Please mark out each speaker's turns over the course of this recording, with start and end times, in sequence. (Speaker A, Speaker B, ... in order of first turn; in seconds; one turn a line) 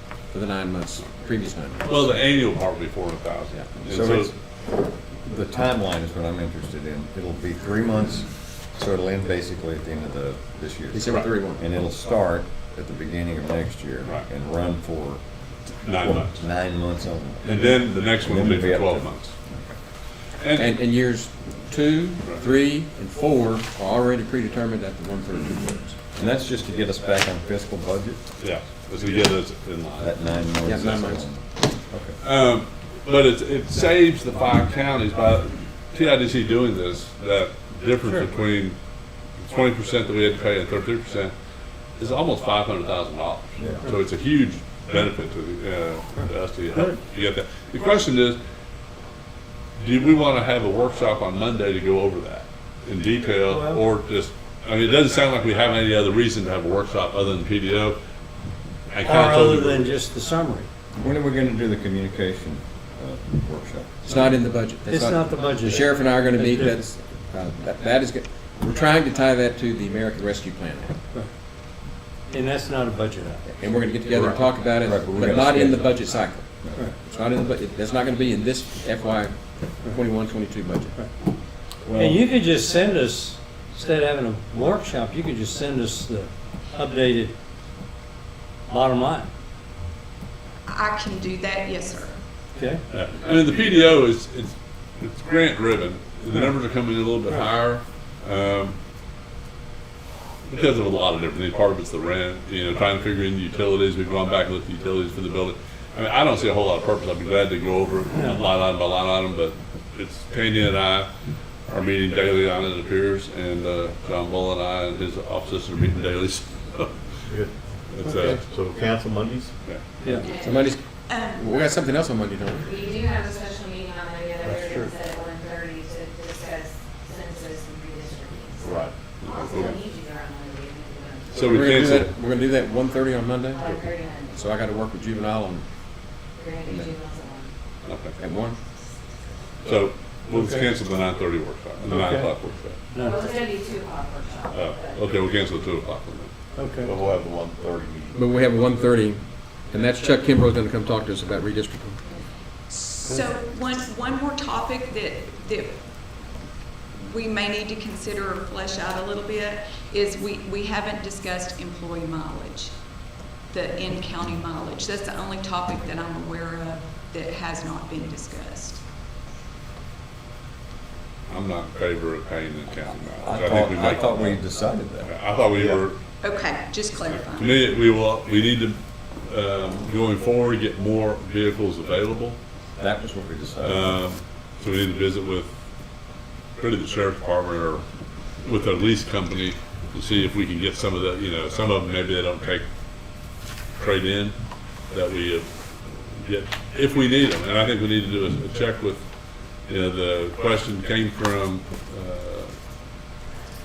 Speaker A: 0.3-1.9
Speaker B: 1.9-4.3
Speaker C: 3.9-4.6
Speaker C: 5.2-15.2
Speaker A: 10.9-11.6
Speaker B: 15.8-16.4
Speaker C: 16.0-19.1
Speaker B: 17.4-19.3
Speaker B: 20.4-20.8
Speaker A: 20.6-26.0
Speaker C: 26.1-28.2
Speaker B: 28.4-30.3
Speaker C: 30.0-32.2
Speaker A: 30.6-31.3
Speaker B: 32.2-38.8
Speaker B: 39.4-41.3
Speaker B: 42.0-48.4
Speaker B: 49.8-58.0
Speaker D: 53.5-53.9
Speaker B: 58.9-60.0
Speaker D: 59.0-60.7
Speaker C: 61.0-63.9
Speaker A: 64.0-71.0
Speaker D: 64.8-66.8
Speaker D: 72.3-73.4
Speaker A: 73.5-81.0
Speaker D: 74.1-74.4
Speaker C: 74.7-76.0
Speaker C: 76.6-77.0
Speaker A: 81.8-82.2
Speaker D: 81.9-87.3
Speaker D: 88.7-89.3
Speaker E: 90.7-92.2
Speaker D: 92.5-92.8
Speaker B: 92.9-98.8
Speaker B: 100.5-111.1
Speaker B: 111.7-117.1
Speaker B: 117.9-118.4
Speaker F: 118.0-119.5
Speaker D: 120.0-120.3
Speaker G: 120.2-120.7
Speaker A: 120.2-120.8
Speaker E: 121.1-121.6
Speaker A: 121.3-122.8
Speaker G: 122.6-128.8
Speaker D: 124.6-124.9
Speaker F: 128.6-128.9
Speaker B: 129.2-129.8
Speaker G: 129.3-131.5
Speaker B: 131.3-132.1
Speaker A: 131.4-135.7
Speaker G: 133.6-134.4
Speaker G: 136.4-137.5
Speaker A: 136.6-137.0
Speaker B: 137.8-138.2
Speaker A: 138.2-138.6
Speaker B: 139.6-142.8
Speaker D: 140.3-140.7
Speaker D: 141.8-142.3
Speaker D: 142.9-143.3
Speaker G: 143.0-145.0
Speaker B: 144.5-146.3
Speaker D: 146.6-146.9
Speaker F: 146.8-148.1
Speaker A: 148.1-152.0
Speaker E: 152.7-155.8
Speaker E: 156.9-162.8
Speaker E: 163.5-168.8
Speaker B: 171.3-174.4
Speaker C: 173.2-175.1
Speaker B: 175.0-176.0
Speaker E: 176.2-177.7
Speaker B: 177.0-182.4
Speaker C: 182.8-184.0
Speaker B: 183.6-185.5
Speaker B: 186.6-187.8
Speaker B: 188.4-192.7
Speaker B: 193.8-194.4
Speaker B: 194.9-199.0
Speaker B: 199.7-202.6